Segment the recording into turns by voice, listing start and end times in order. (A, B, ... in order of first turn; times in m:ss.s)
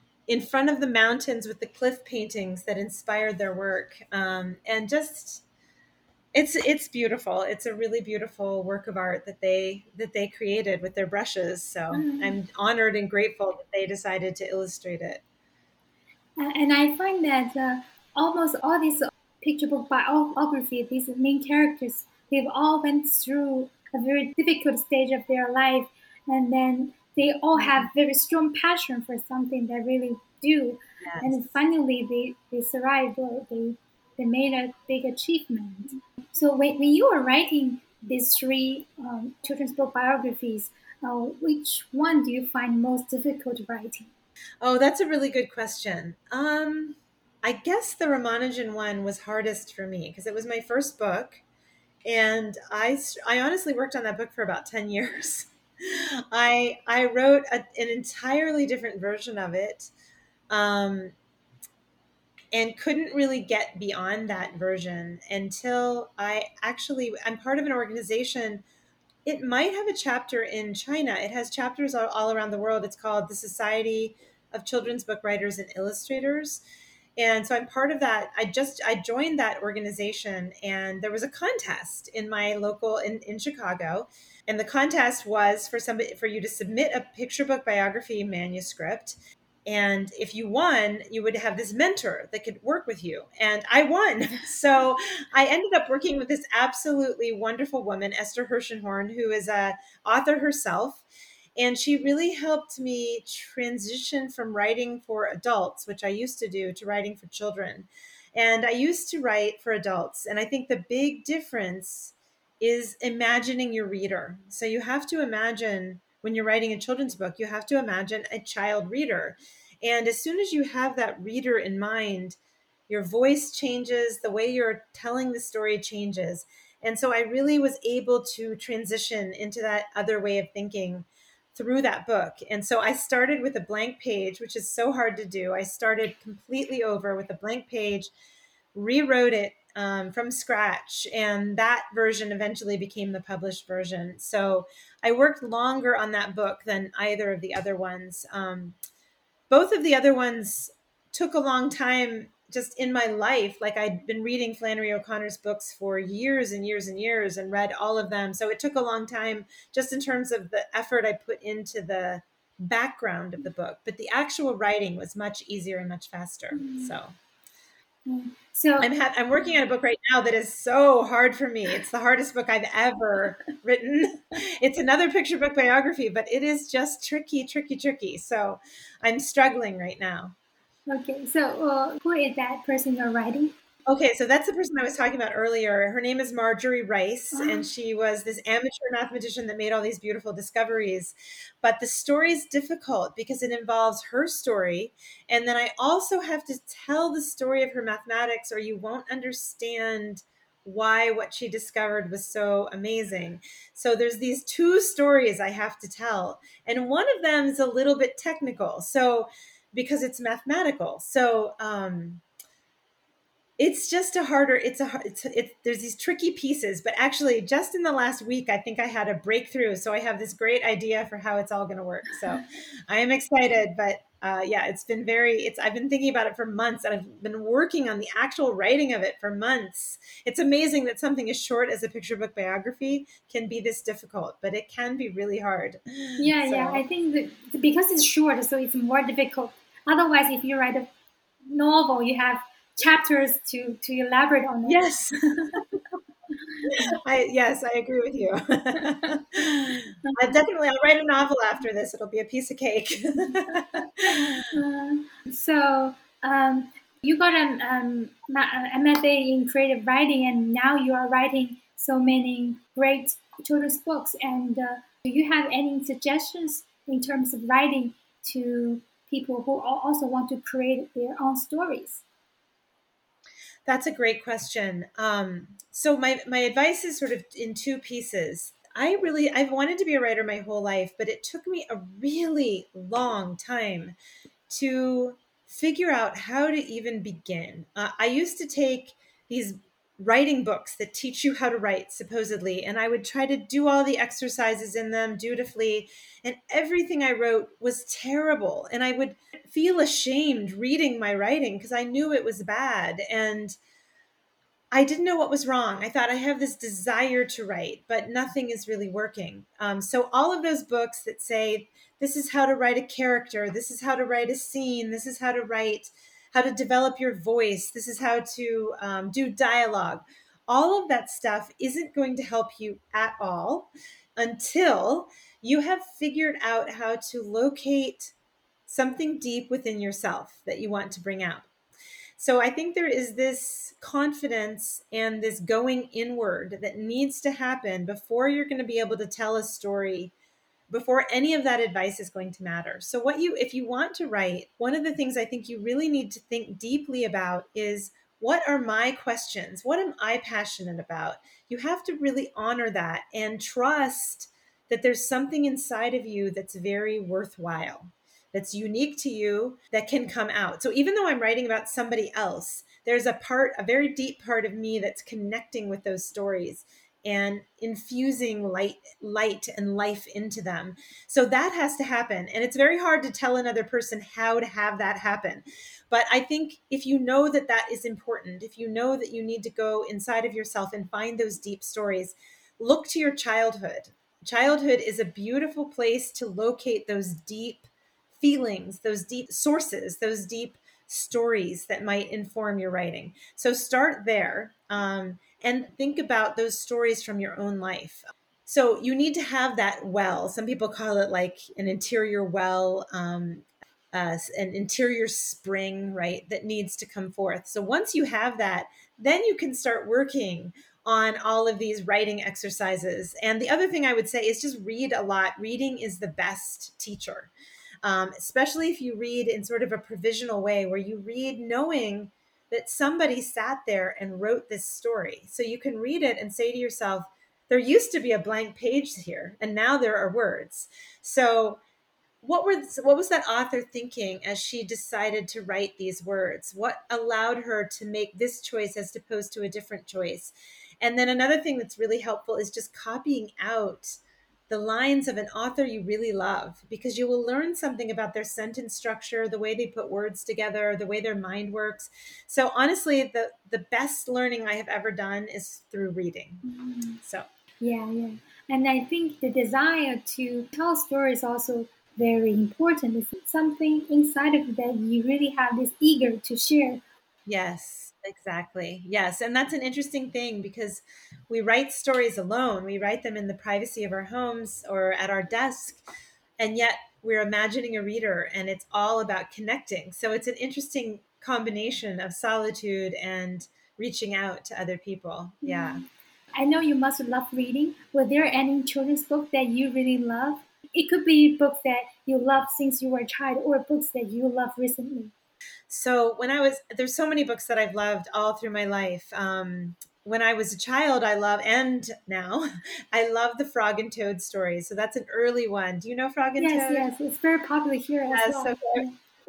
0:00.3-0:05.4 A
0:06.3-0:15.2 A
0:11.9-0:12.4 B
0:16.4-0:44.1 B
0:27.6-0:27.9 A
0:31.0-0:31.5 A
0:44.6-0:51.4 A
0:52.0-0:59.9 A
1:00.5-1:01.2 A
1:02.5-1:08.6 A
1:09.2-1:16.6 A
1:17.2-1:41.0 A
1:41.6-2:02.4 A
2:02.9-2:18.1 A
2:18.7-2:28.8 A
2:29.5-2:47.2 A
2:46.5-2:46.9 B
2:48.1-2:48.9 B
2:48.8-3:00.4 A
3:00.9-3:03.5 B
3:03.9-3:32.2 A
3:07.3-3:07.7 B
3:33.6-3:56.8 A
3:56.2-4:00.9 B
4:01.5-4:05.6 B
4:04.7-4:05.6 A
4:06.7-4:14.4 A
4:08.8-4:10.2 B
4:14.0-4:32.0 B
4:33.7-4:44.0 A
4:44.5-5:03.6 A
5:04.7-5:28.1 A
5:28.7-5:31.5 A
5:32.2-5:40.1 A
5:40.7-6:57.3 A
6:57.8-7:11.6 A
7:12.2-7:36.4 A
7:36.4-7:37.0 B
7:37.6-7:46.8 B
7:47.3-7:55.8 A
7:56.4-8:05.8 A
8:05.4-8:15.1 B
8:15.7-8:26.9 A
8:26.4-8:29.0 B
8:28.1-8:28.9 A